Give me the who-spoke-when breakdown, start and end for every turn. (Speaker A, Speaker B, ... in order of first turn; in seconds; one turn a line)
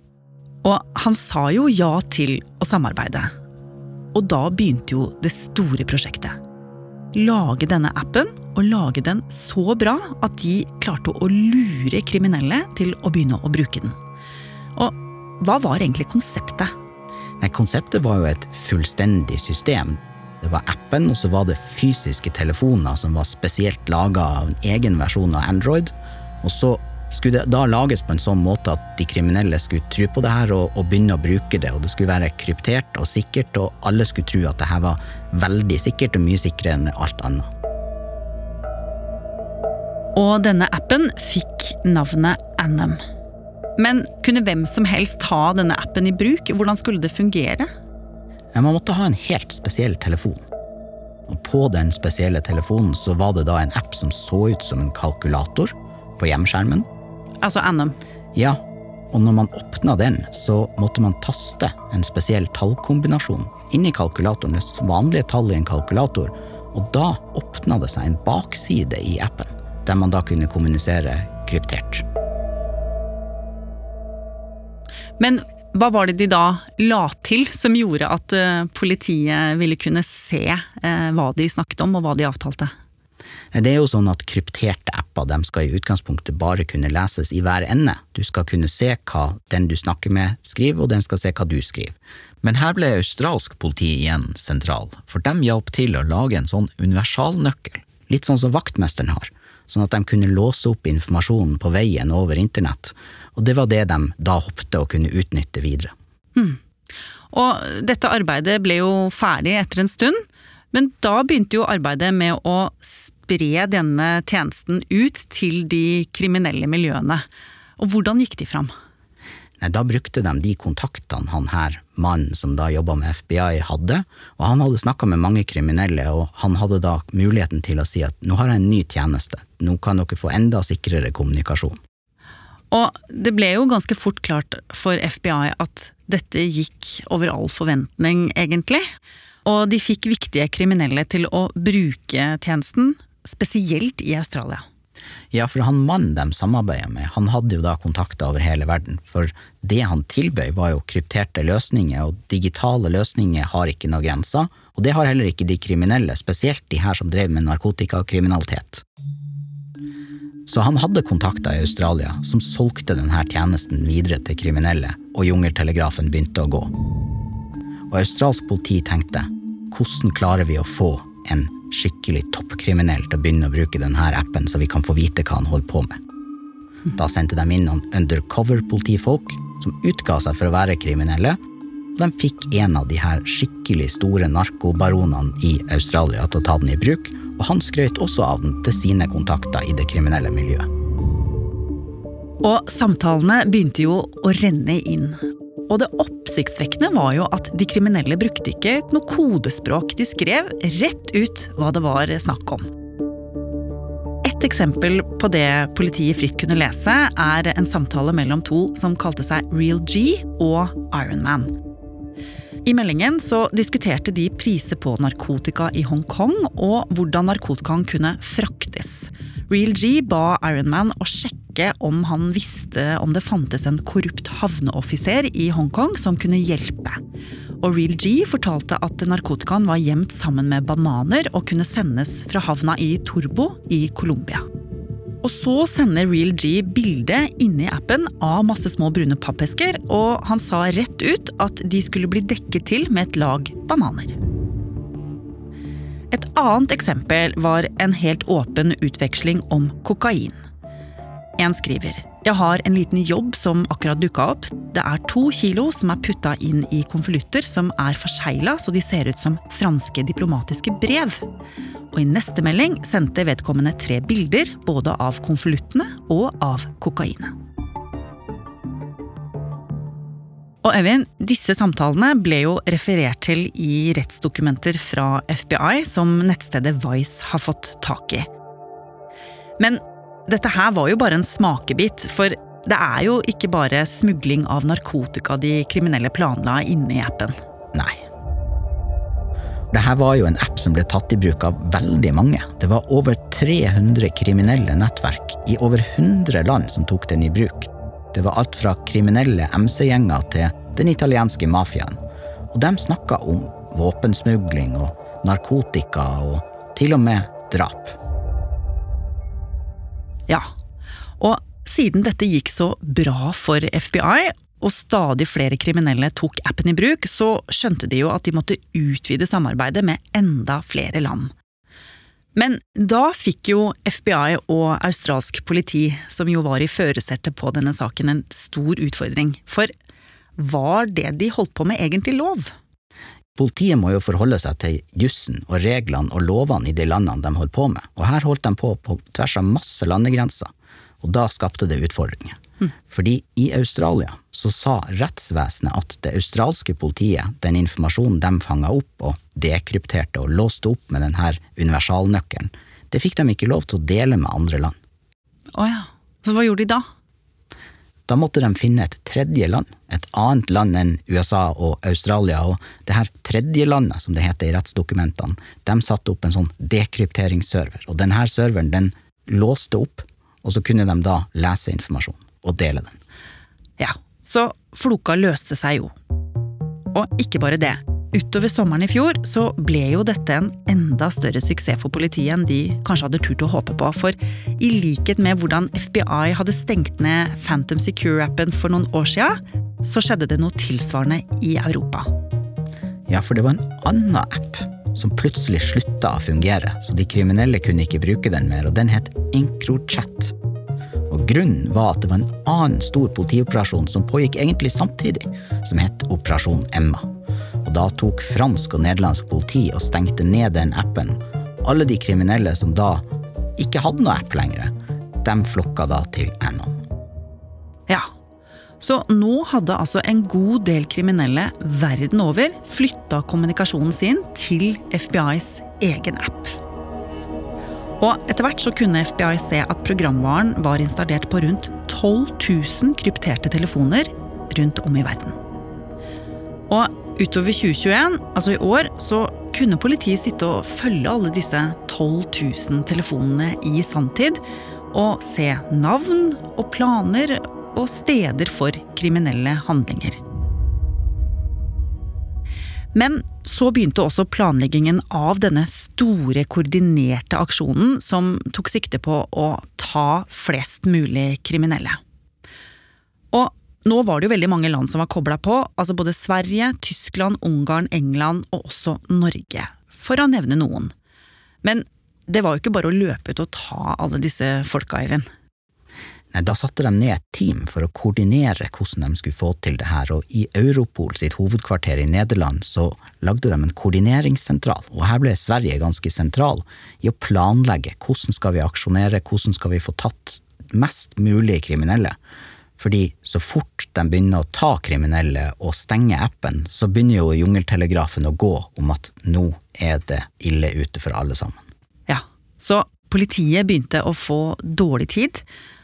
Speaker A: 0.6-3.3
Speaker A: 4.1-6.4
Speaker A: 7.1-14.0
Speaker A: 14.8-16.7
Speaker B: 17.4-37.4
Speaker A: 40.1-43.0
Speaker A: 43.8-47.7
Speaker B: 48.5-50.4
Speaker B: 51.3-56.8
Speaker A: 57.4-58.0
Speaker B: 59.1-72.0
Speaker A: 75.2-82.7
Speaker B: 83.5-105.9
Speaker A: 107.3-117.2
Speaker A: 117.8-118.7
Speaker B: 119.6-131.8
Speaker A: 132.7-138.8
Speaker A: 139.4-144.6
Speaker B: 145.3-158.8
Speaker B: 160.5-166.7
Speaker B: 167.9-176.0
Speaker B: 176.9-181.4
Speaker B: 181.9-190.7
Speaker A: 192.4-202.7
Speaker A: 204.2-211.6
Speaker A: 212.6-227.0
Speaker A: 227.6-234.4
Speaker A: 235.2-244.2
Speaker A: 246.1-250.4
Speaker A: 251.4-261.2
Speaker A: 261.9-267.4
Speaker A: 270.6-278.3
Speaker A: 279.6-287.4
Speaker B: 287.7-288.0
Speaker B: 289.7-302.0
Speaker B: 302.5-307.9
Speaker A: 311.2-321.3
Speaker A: 322.3-329.7
Speaker A: 330.4-332.5
Speaker B: 333.4-340.5
Speaker B: 341.0-342.4
Speaker B: 342.9-354.8
Speaker A: 355.5-356.9
Speaker B: 358.1-373.0
Speaker A: 373.8-375.9
Speaker A: 376.9-392.1
Speaker B: 393.1-400.3
Speaker B: 401.1-407.1
Speaker B: 407.6-413.0
Speaker B: 413.6-416.8
Speaker A: 418.8-426.6
Speaker A: 428.0-435.4
Speaker A: 436.7-450.2
Speaker A: 452.9-462.0
Speaker A: 463.3-470.9
Speaker A: 471.6-475.3
Speaker B: 476.3-492.1
Speaker B: 492.8-501.6
Speaker A: 502.1-505.4